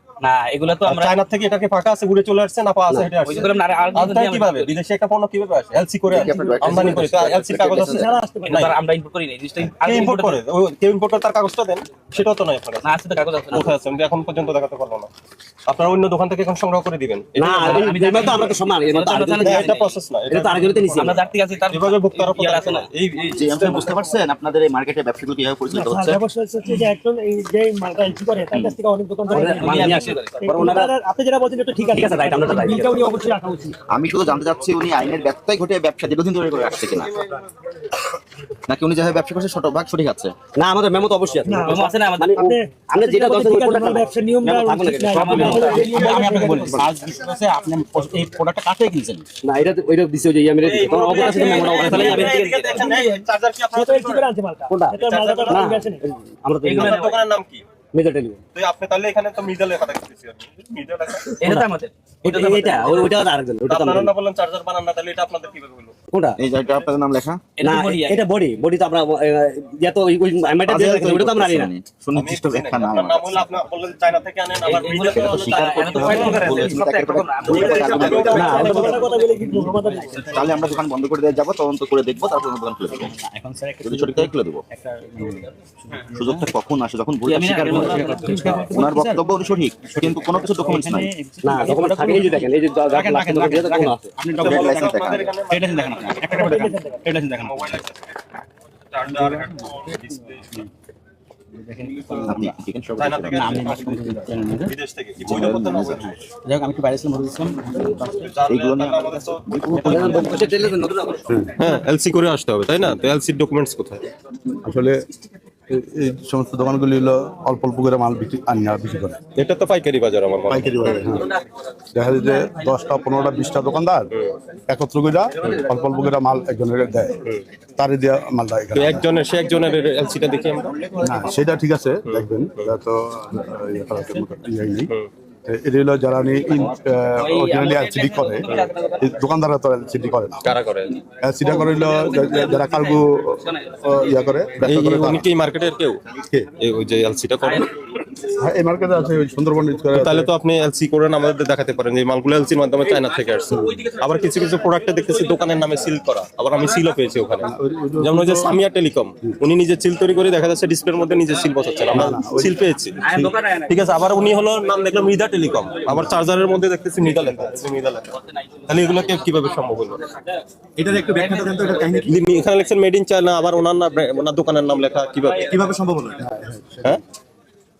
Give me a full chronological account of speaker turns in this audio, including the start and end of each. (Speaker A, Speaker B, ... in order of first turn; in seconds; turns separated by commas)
Speaker A: 0.2-1.1, Speaker B: 0.8-8.8, Speaker A: 3.3-4.6, Speaker C: 3.7-4.4, Speaker D: 6.1-8.2, Speaker E: 6.4-7.0, Speaker E: 7.7-8.6, Speaker A: 8.6-10.3, Speaker C: 9.6-10.3, Speaker B: 9.8-15.1, Speaker A: 13.1-13.5, Speaker B: 15.7-18.4, Speaker F: 17.4-19.7, Speaker C: 17.6-18.5, Speaker A: 18.9-19.7, Speaker C: 19.2-19.8, Speaker B: 19.4-21.1, Speaker F: 20.3-21.2, Speaker A: 20.9-21.6, Speaker C: 21.3-22.2, Speaker B: 21.7-24.2, Speaker A: 22.3-22.6, Speaker D: 23.2-26.2, Speaker E: 25.7-33.7, Speaker F: 29.3-30.9, Speaker A: 29.8-30.2, Speaker F: 31.7-33.0, Speaker D: 33.9-37.1, Speaker D: 38.7-40.3, Speaker F: 40.6-46.1, Speaker E: 41.4-46.8, Speaker C: 45.2-49.2, Speaker F: 49.4-52.8, Speaker B: 50.6-54.2, Speaker E: 51.0-53.2, Speaker E: 53.7-56.0, Speaker F: 54.7-57.1, Speaker B: 55.0-55.7, Speaker B: 56.6-57.6, Speaker F: 57.9-58.4, Speaker B: 58.5-61.4, Speaker C: 61.4-62.8, Speaker F: 61.4-61.7, Speaker F: 62.2-64.1, Speaker B: 63.6-65.9, Speaker F: 66.1-66.4, Speaker D: 66.4-67.4, Speaker C: 67.6-68.2, Speaker F: 67.6-71.7, Speaker D: 70.6-73.5, Speaker B: 72.1-76.6, Speaker C: 74.6-80.8, Speaker D: 75.0-79.0, Speaker F: 76.1-76.7, Speaker A: 77.0-77.6, Speaker B: 77.5-78.5, Speaker E: 77.5-80.3, Speaker F: 78.0-79.0, Speaker D: 80.3-83.1, Speaker C: 83.0-86.5, Speaker D: 83.8-84.6, Speaker D: 86.1-88.1, Speaker C: 87.2-89.3, Speaker F: 87.6-88.2, Speaker E: 88.2-88.9, Speaker D: 88.7-91.1, Speaker C: 89.9-97.7, Speaker E: 90.6-91.0, Speaker F: 91.4-94.0, Speaker E: 91.6-92.3, Speaker B: 94.3-96.4, Speaker D: 94.4-95.3, Speaker E: 96.3-97.0, Speaker B: 97.3-98.2, Speaker B: 98.9-100.5, Speaker C: 99.1-99.6, Speaker C: 101.5-102.5, Speaker D: 102.2-103.6, Speaker B: 103.0-106.0, Speaker C: 103.3-104.7, Speaker D: 105.2-106.1, Speaker C: 105.3-108.2, Speaker B: 108.0-109.4, Speaker D: 108.5-110.5, Speaker C: 109.7-110.8, Speaker F: 109.9-111.3, Speaker B: 111.6-114.1, Speaker G: 114.6-115.0, Speaker G: 115.7-119.2, Speaker B: 119.3-121.1, Speaker G: 120.5-121.3, Speaker G: 121.9-124.1, Speaker G: 124.7-127.2, Speaker G: 127.8-129.0, Speaker B: 128.7-130.8, Speaker G: 131.0-134.9, Speaker B: 132.1-132.7, Speaker G: 135.4-140.5, Speaker C: 137.2-139.1, Speaker B: 140.4-141.0, Speaker G: 141.2-145.3, Speaker C: 141.9-142.7, Speaker B: 144.6-146.0, Speaker G: 146.2-146.5, Speaker B: 146.6-147.7, Speaker G: 148.4-150.3, Speaker B: 149.9-170.0, Speaker G: 157.4-158.6, Speaker G: 161.9-163.4, Speaker A: 163.1-163.7, Speaker H: 170.8-172.1, Speaker B: 172.1-175.5, Speaker H: 175.4-176.2, Speaker G: 176.2-177.0